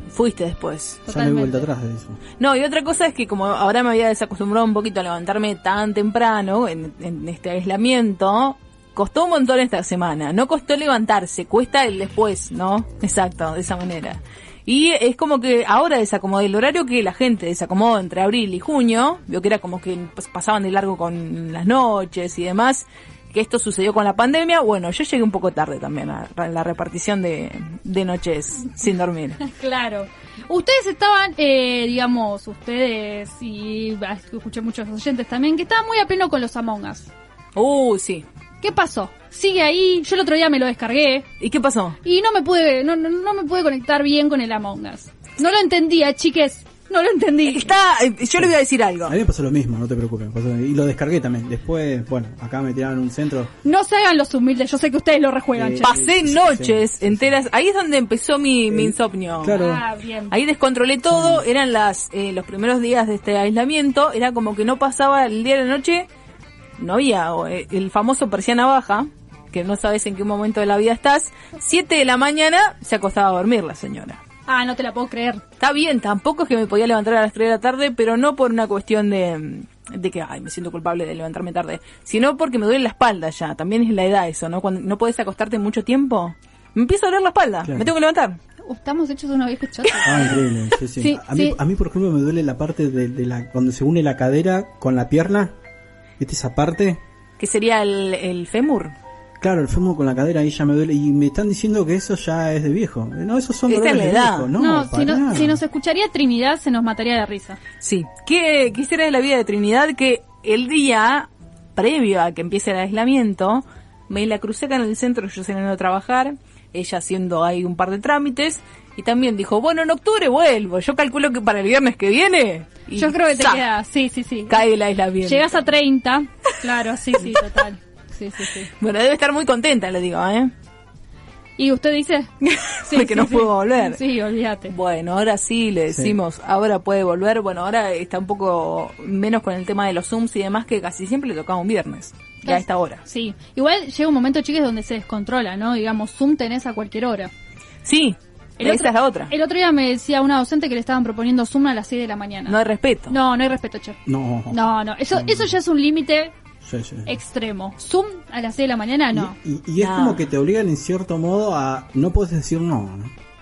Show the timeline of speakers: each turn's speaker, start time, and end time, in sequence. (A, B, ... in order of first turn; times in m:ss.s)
0:00.1-0:01.0 A
0:01.1-0:01.7 B
0:01.1-0:02.2 C
0:02.4-0:29.4 A
0:29.4-0:37.1 B
0:37.6-0:38.3 A
0:38.6-0:41.3 B
0:41.4-0:42.0 A
0:42.0-0:47.8 B
0:47.4-0:49.2 A
0:49.0-0:53.5 C
0:53.6-0:56.0 B
0:55.5-0:57.4 C
0:55.8-0:59.7 A
0:58.7-0:59.8 C
0:59.5-1:00.4 B
1:00.3-1:06.1 A
1:01.1-1:01.4 C
1:06.8-1:14.2 A
1:14.5-1:15.4 B
1:15.6-1:28.4 A
1:28.6-1:30.5 B
1:30.0-1:35.6 C
1:31.0-1:31.6 B
1:36.2-1:37.0 C
1:37.4-1:39.0 A
1:39.4-1:45.6 C
1:43.7-1:44.5 A
1:44.6-1:47.6 B
1:47.8-2:03.6 A
2:02.9-2:04.7 B
2:04.5-2:05.6 A
2:05.2-2:08.7 B
2:08.8-2:10.5 A
2:11.6-2:12.3 B
2:12.4-2:14.0 A
2:12.9-2:14.7 B
2:14.7-2:23.0 A
2:15.9-2:16.2 C
2:22.4-2:27.3 B
2:27.8-2:29.3 A
2:28.6-2:32.6 B
2:32.5-2:33.2 A
2:33.1-2:34.0 B
2:34.1-2:35.5 C
2:34.5-2:36.3 B
2:36.6-2:37.2 C
2:37.1-2:39.4 B
2:39.1-2:43.1 C
2:39.8-2:40.3 A